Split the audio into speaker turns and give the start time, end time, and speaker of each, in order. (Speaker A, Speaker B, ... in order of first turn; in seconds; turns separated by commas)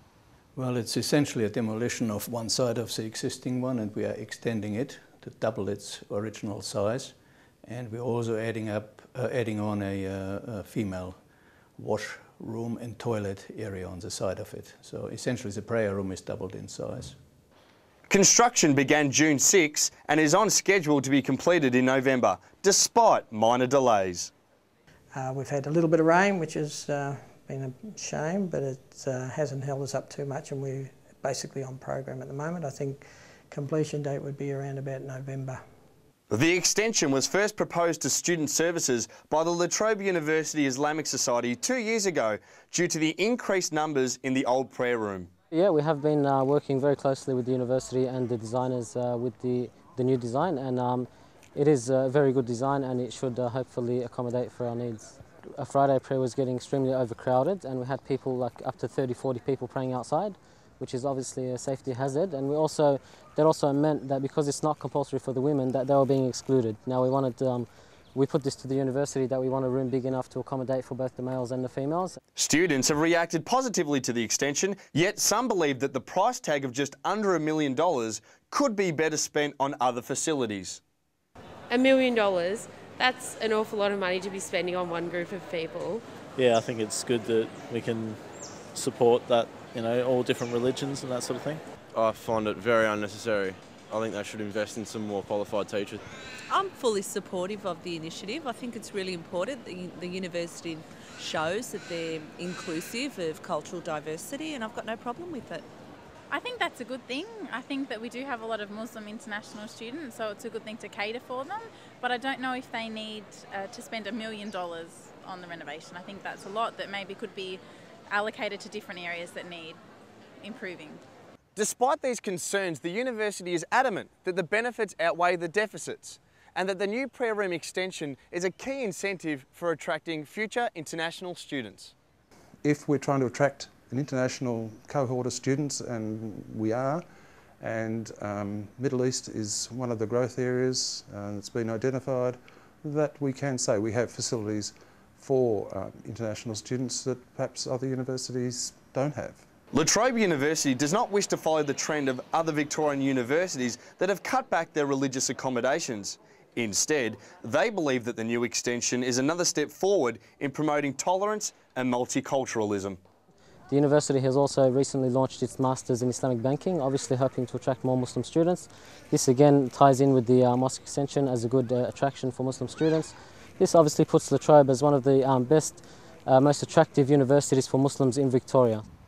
Speaker A: 0.6-11.2, Speaker A: 11.8-17.2, Speaker B: 18.1-24.3, Speaker C: 25.1-35.6, Speaker B: 36.3-45.3, Speaker D: 45.5-72.2, Speaker B: 72.4-80.8, Speaker E: 81.7-86.0, Speaker F: 86.4-91.6, Speaker G: 91.9-96.0, Speaker H: 96.5-105.7, Speaker I: 106.3-119.8, Speaker I: 120.4-121.0, Speaker B: 121.6-131.9, Speaker J: 132.6-137.1, Speaker J: 137.6-149.4, Speaker B: 149.7-163.0, Speaker D: 163.7-178.8